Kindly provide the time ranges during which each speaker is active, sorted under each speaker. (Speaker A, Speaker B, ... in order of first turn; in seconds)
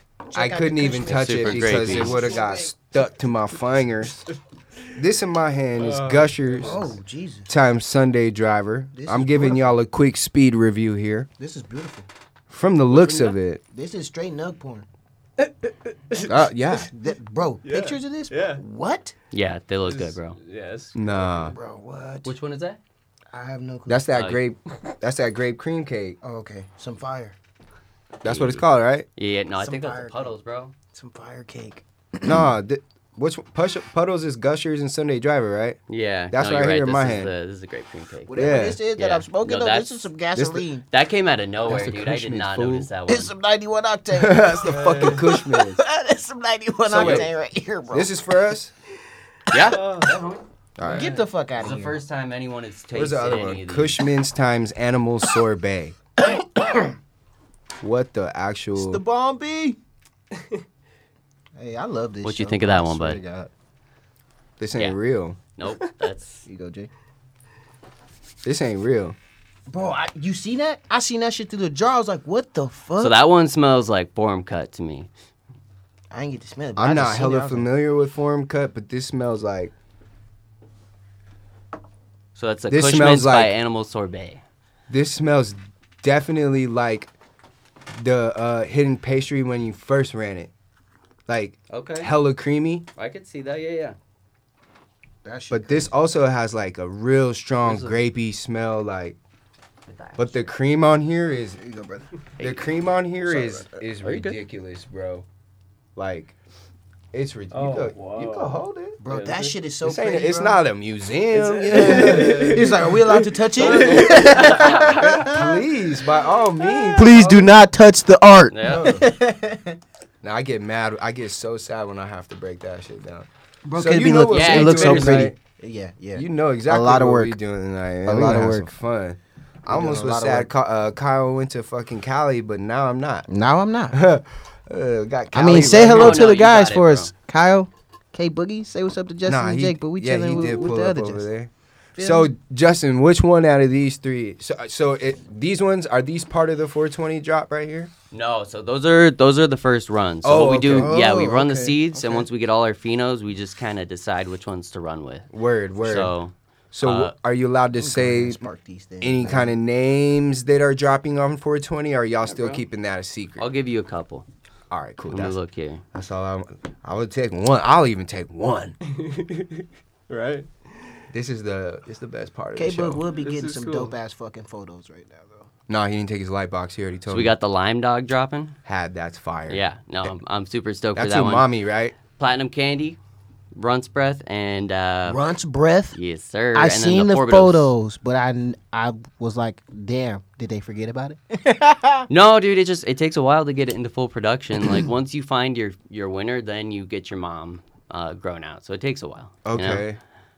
Speaker A: 0.3-2.7, 6.6-7.5, 8.9-9.8, 11.4-12.1, 13.7-14.9, 16.7-19.1, 21.4-22.3, 23.3-24.1, 26.2-27.4, 29.6-30.3, 30.9-32.4, 38.3-40.9, 43.1-48.1, 50.9-52.0, 56.3-56.9, 58.8-59.8, 61.5-63.5, 66.5-66.9, 69.7-73.2, 76.1-77.7, 95.2-95.9, 101.6-102.1, 103.2-103.8, 109.0-110.6, 111.7-115.5, 116.9-119.8, 123.7-127.4, 128.1-128.7, 129.7-130.5, 133.3-134.0, 135.3-141.3, 142.0-142.3, 150.7-152.3, 157.8-159.5, 172.6-175.5, 185.1-186.0, 186.5-192.1
Speaker B: 0.3-4.2, 4.9-6.9, 7.5-11.3, 12.5-13.6, 16.2-16.9, 20.9-21.5, 23.9-26.2, 28.2-29.1, 32.2-35.8, 36.3-37.3, 38.3-38.8, 40.4-40.7, 41.6-42.9, 44.1-45.8, 46.9-47.3, 47.9-48.7, 50.8-51.1, 52.9-56.0, 57.8-59.0, 64.6-65.4, 68.4-69.2, 76.8-79.7, 82.7-83.5, 84.9-87.1, 87.9-90.5, 91.3-92.9, 95.5-99.2, 100.2-101.6, 102.4-105.2, 106.0-106.3, 107.1-109.0, 109.8-117.5, 118.6-119.0, 120.2-125.3, 126.1-133.3, 133.9-136.3, 139.2-147.9, 150.2-151.3, 155.3-156.1, 156.7-158.4, 159.0-163.5, 164.7-165.4, 165.9-168.8, 171.1-173.0, 175.7-177.3, 178.7-179.6, 180.9-181.9, 199.4-200.0
Speaker C: 1.1-2.3, 19.3-20.4, 22.2-22.8, 24.1-24.4, 28.2-28.6, 29.2-30.7, 35.9-40.0, 40.9-43.3, 46.9-47.3, 49.5-50.4, 51.5-54.0, 62.2-63.2, 65.6-66.4, 73.0-75.1, 82.3-84.4, 91.7-92.1, 93.0-94.0, 97.6-98.0, 99.9-100.5, 114.4-115.0, 118.5-118.9, 124.3-125.3, 135.5-137.1, 148.1-155.3, 155.8-156.3, 156.8-157.1, 163.4-164.2, 165.1-165.8, 177.1-178.6, 179.5-181.5, 182.1-183.0, 183.5-185.2, 185.9-187.7, 192.1-199.8
Speaker D: 5.8-6.9, 15.4-16.4, 17.6-18.6, 19.8-21.5, 44.6-45.2, 49.6-50.2, 50.8-51.2, 104.0-104.3, 107.5-109.5, 111.3-115.4, 168.9-171.0, 173.1-173.9